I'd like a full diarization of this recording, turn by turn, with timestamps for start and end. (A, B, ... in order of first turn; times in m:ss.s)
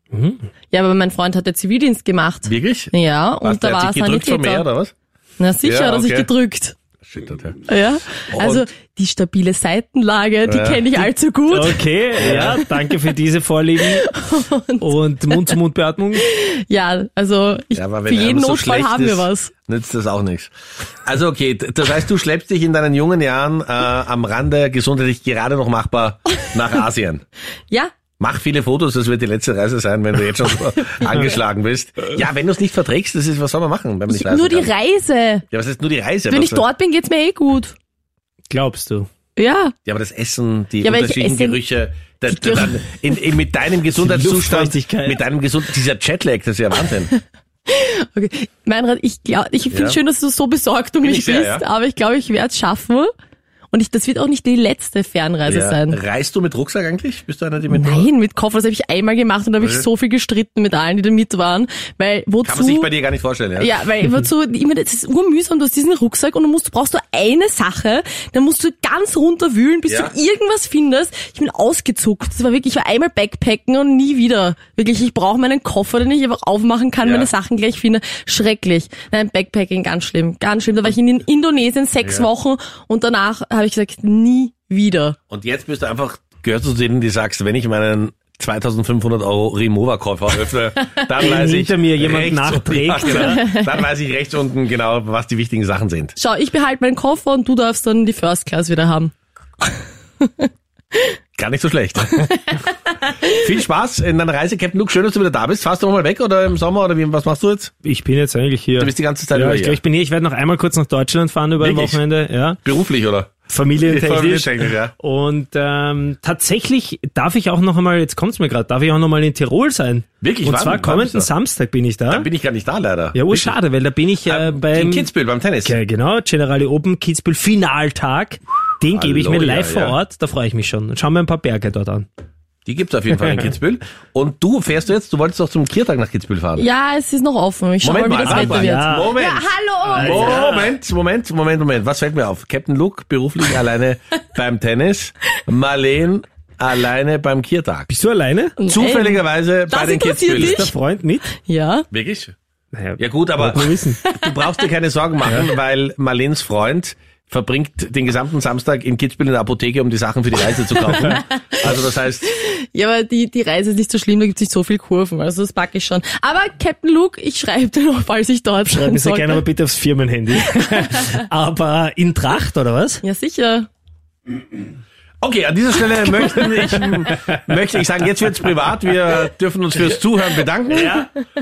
0:00.1-0:00.4 A
0:00.7-0:04.6 B
0:02.5-0:04.9 C
0:05.4-0:06.8 B
0:05.6-0:06.3 C
0:07.0-0:07.6 C
0:07.7-0:11.8 B
0:08.3-0:08.7 C
0:10.4-0:11.1 C
0:11.5-0:14.1 A
0:12.2-0:12.6 C
0:13.8-0:15.5 B
0:14.8-0:16.2 A
0:16.2-0:19.5 B
0:17.8-0:20.5 C
0:21.0-0:27.2 C
0:28.2-0:34.7 C
0:34.1-0:35.4 B
0:35.5-0:36.6 C
0:36.3-0:37.7 B
0:38.5-0:39.1 A
0:39.4-0:39.7 B
0:39.9-0:47.1 C
0:40.8-0:41.6 B
0:42.3-0:42.8 B
0:44.0-0:45.2 A
0:47.7-0:53.1 B
0:49.7-0:50.0 C
0:51.0-0:51.6 C
0:53.7-0:56.0 B
0:55.5-0:58.1 C
0:57.7-1:02.9 B
0:59.6-0:59.9 C
1:02.4-1:03.8 C
1:03.6-1:25.2 B
1:09.9-1:10.1 C
1:17.0-1:17.3 C
1:22.0-1:22.3 C
1:25.3-1:36.2 C
1:31.2-1:33.4 A
1:33.1-1:33.7 B
1:36.2-1:39.1 B
1:40.2-1:41.0 B
1:41.4-1:42.5 C
1:43.2-1:47.7 C
1:47.8-1:52.6 A
1:48.8-1:49.8 C
1:51.6-1:52.0 C
1:52.6-1:53.3 C
1:53.5-2:02.3 A
1:53.8-1:54.9 C
2:00.2-2:01.3 C
2:02.1-2:03.6 C
2:03.1-2:05.1 A
2:04.2-2:05.8 C
2:05.6-2:12.1 A
2:08.9-2:10.0 C
2:12.6-2:16.7 C
2:16.6-2:20.5 B
2:17.8-2:27.9 C
2:18.3-2:19.1 A
2:19.9-2:20.7 A
2:27.9-2:28.6 A
2:28.6-2:30.8 B
2:28.7-2:30.6 C
2:30.3-2:31.3 A
2:31.4-2:31.9 B
2:31.9-2:32.4 C
2:32.7-2:34.0 A
2:33.0-2:42.3 C
2:41.1-2:41.6 B
2:42.3-2:49.4 B
2:48.7-2:53.0 A
2:53.0-2:53.7 B
2:55.2-3:01.0 C
3:00.7-3:01.1 A